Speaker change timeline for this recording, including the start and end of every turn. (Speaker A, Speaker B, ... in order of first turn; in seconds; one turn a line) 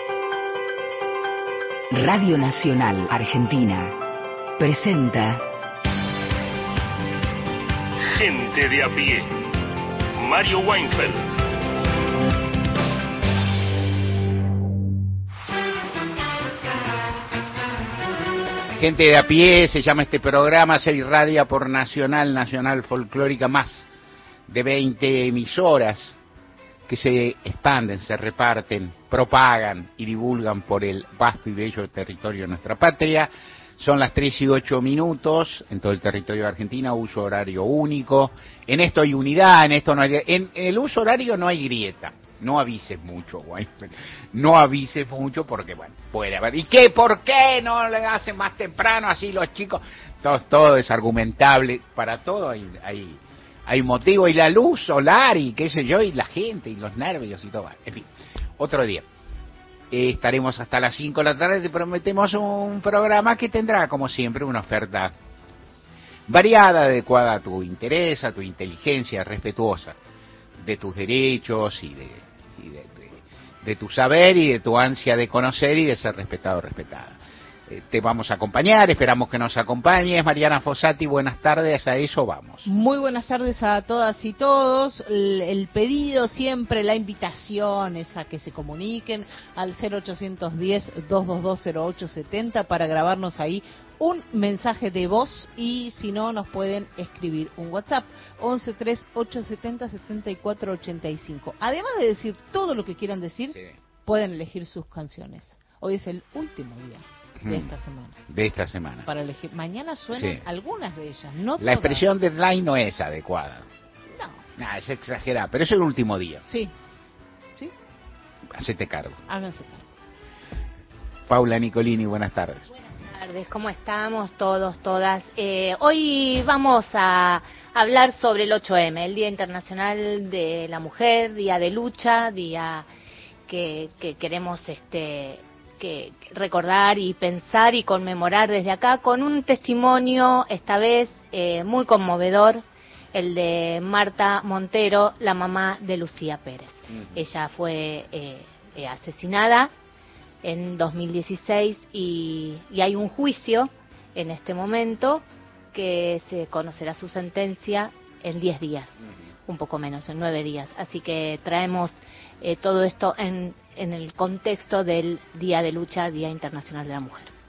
Speaker A: 1.9-4.0
Speaker A: 4.6-5.4
Speaker B: 8.2-9.3
Speaker B: 10.2-11.2
Speaker C: 18.8-23.9
Speaker C: 24.5-26.2
Speaker C: 26.9-58.1
Speaker C: 58.6-59.0
Speaker C: 59.9-65.2
Speaker C: 66.3-70.0
Speaker C: 70.6-77.2
Speaker C: 77.7-82.7
Speaker D: 82.7-108.2
Speaker C: 107.4-107.7
Speaker C: 108.3-109.0
Speaker D: 109.1-112.0
Speaker C: 110.1-110.4
Speaker C: 111.6-113.7
Speaker D: 114.1-114.4
Speaker C: 114.6-116.4
Speaker D: 116.5-116.7
Speaker C: 118.5-119.2
Speaker D: 119.3-119.8
Speaker C: 121.3-122.7
Speaker E: 123.0-132.9
Speaker E: 133.5-149.7
Speaker C: 146.9-147.2
Speaker E: 150.4-158.9
Speaker E: 159.5-167.3